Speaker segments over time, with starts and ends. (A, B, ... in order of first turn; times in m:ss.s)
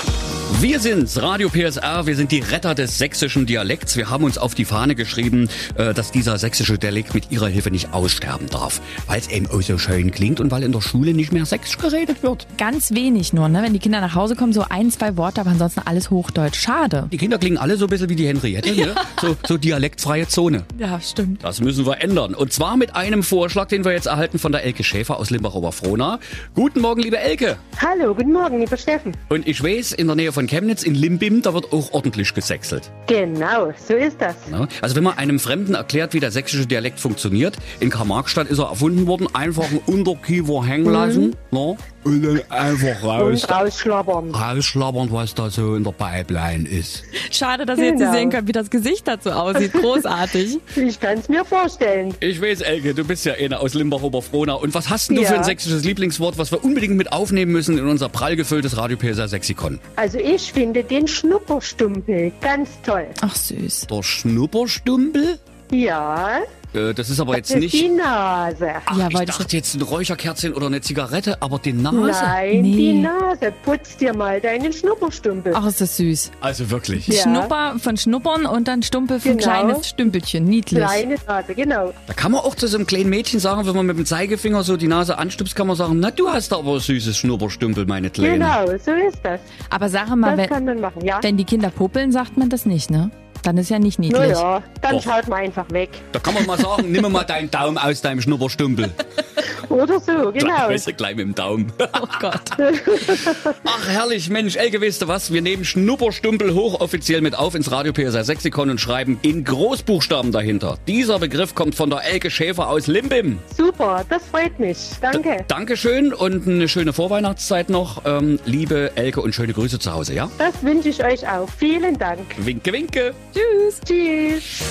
0:00.5-0:12.4 A
0:12.6-0:17.1 B
0:17.1-0:20.7 A
0:20.8-0:21.4 B
0:21.4-0:27.6 A
0:27.8-0:29.2 C
0:29.3-0:32.9 A
0:33.1-0:34.5 C
0:34.5-0:43.6 A
0:40.8-0:41.3 C
0:43.1-0:44.4 C
0:44.3-0:47.1 A
0:47.1-0:50.6 B
0:47.8-0:48.4 C
0:49.5-0:50.1 C
0:50.7-0:52.2 C
0:52.2-0:59.8 A
0:55.1-0:55.6 C
1:00.0-1:03.2 C
1:03.2-1:03.9 B
1:03.9-1:05.4 A
1:05.7-1:06.4 C
1:06.7-1:07.9 A
1:07.3-1:08.9 C
1:08.9-1:12.5 A
1:08.9-1:09.5 B
1:11.9-1:15.6 C
1:12.5-1:13.1 B
1:15.5-1:16.3 B
1:16.4-1:17.1 A
1:17.0-1:21.0 B
1:17.1-1:17.5 C
1:19.2-1:19.9 C
1:20.7-1:22.0 C
1:22.1-1:28.6 A
1:28.2-1:29.6 C
1:29.6-1:30.5 B
1:30.2-1:31.3 C
1:31.2-1:34.4 B
1:34.1-1:36.0 C
1:36.1-1:39.0 A
1:39.4-1:40.8 C
1:40.4-1:42.5 A
1:41.9-1:43.2 B
1:42.6-1:43.5 C
1:43.2-1:53.4 A
1:53.5-1:55.4 C
1:55.1-2:00.3 A
2:00.4-2:02.4 C
2:02.4-2:03.2 A
2:03.3-2:03.8 B
2:03.8-2:04.5 C